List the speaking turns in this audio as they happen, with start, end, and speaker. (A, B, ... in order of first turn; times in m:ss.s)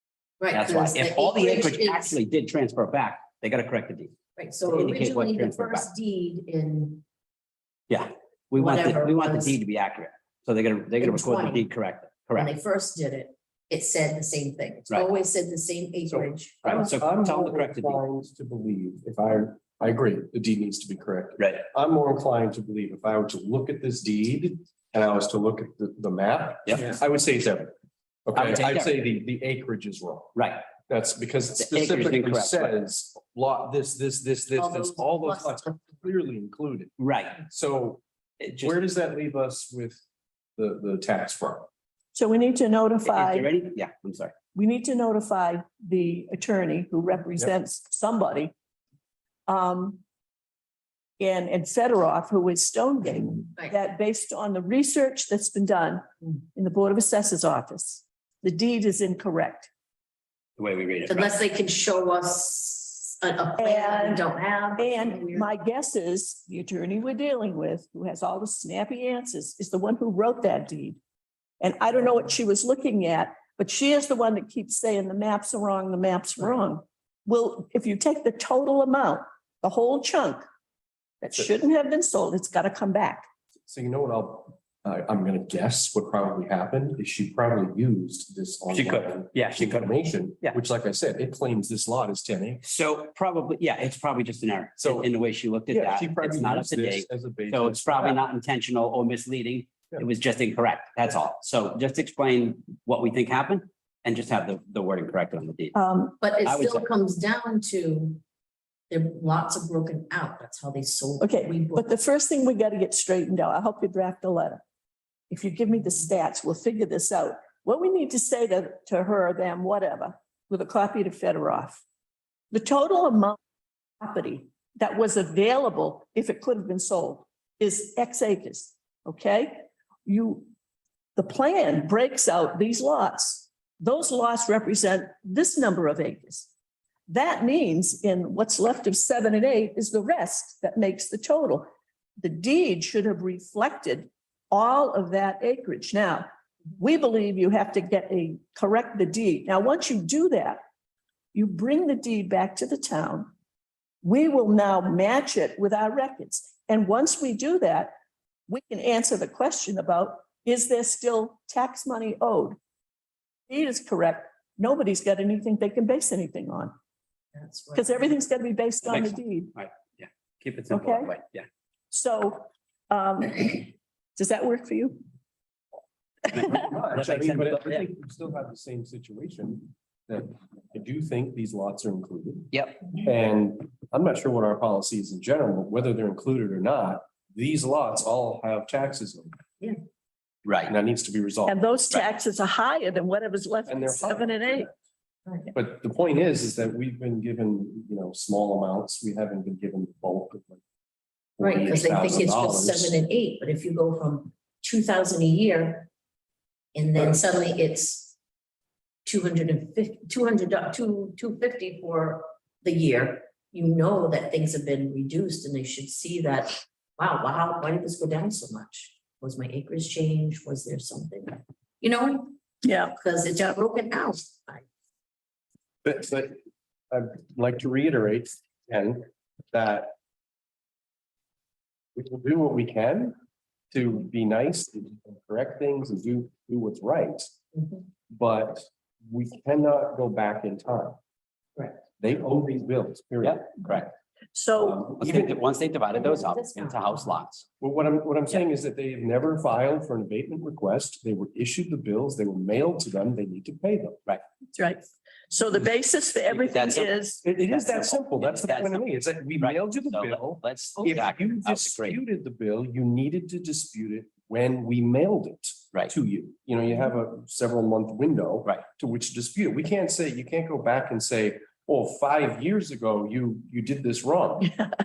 0:00.4-0:02.2 A
0:00.5-0:04.2 B
0:04.4-0:07.0 A
0:04.6-0:05.9 B
0:07.9-0:12.5 B
0:08.5-0:09.6 A
0:11.0-0:11.7 A
0:12.4-0:16.8 A
0:16.1-0:27.7 C
0:16.6-0:18.0 B
0:28.3-0:36.9 C
0:28.4-0:28.9 B
0:30.4-0:30.7 B
0:31.6-0:32.8 B
0:34.6-0:36.0 A
0:37.0-0:37.5 B
0:37.5-0:38.0 C
0:38.4-0:38.8 B
0:38.6-0:40.0 C
0:40.6-0:41.7 C
0:42.1-0:43.5 D
0:43.0-0:44.4 B
0:44.5-0:48.5 D
0:49.5-0:50.0 D
0:51.2-0:56.0 D
0:56.6-0:59.7 D
1:00.6-1:01.4 B
1:01.1-1:05.5 A
1:03.6-1:11.0 D
1:11.6-1:20.4 D
1:21.2-1:23.3 D
1:23.7-1:32.6 C
1:28.7-1:29.9 B
1:32.6-1:45.7 B
1:34.8-1:35.1 C
1:35.7-1:38.2 C
1:45.7-1:46.2 D
1:46.2-1:48.2 A
1:46.4-1:46.8 B
1:48.9-1:51.8 A
1:51.2-1:54.6 D
1:55.3-2:01.8 D
2:02.5-2:03.4 D
2:04.0-2:10.5 D
2:11.2-2:16.5 D
2:17.1-2:21.7 D
2:22.2-2:26.3 D
2:26.8-2:30.6 D
2:31.3-2:33.3 D
2:34.0-2:37.9 D
2:38.5-2:42.6 D
2:43.5-2:46.7 D
2:47.3-2:48.0 A
2:47.7-2:49.5 D
2:48.8-2:51.5 B
2:50.7-2:51.1 D
2:51.9-2:55.0 D
2:56.3-2:57.8 B
2:56.5-3:09.4 C
3:02.5-3:02.9 B
3:10.4-3:10.8 B
3:10.7-3:11.6 C
3:11.4-3:14.7 D
3:13.7-3:14.7 C
3:15.5-3:20.6 C
3:21.4-3:22.9 C
3:21.4-3:25.9 A
3:26.7-3:28.2 A
3:29.0-3:42.4 A
3:42.6-3:43.0 D
3:42.9-3:44.7 A
3:45.8-3:46.4 C
3:46.9-3:49.9 C
3:52.0-3:53.2 C
3:53.7-3:57.3 C
3:58.1-4:01.0 C
4:02.0-4:03.5 C
4:03.2-4:03.9 B
4:04.3-4:04.9 D
4:04.6-4:07.4 B
4:05.0-4:05.4 C
4:05.9-4:07.1 A
4:07.6-4:14.0 C
4:14.6-4:17.2 D
4:16.3-4:16.9 B
4:17.2-4:34.6 C
4:17.5-4:22.0 B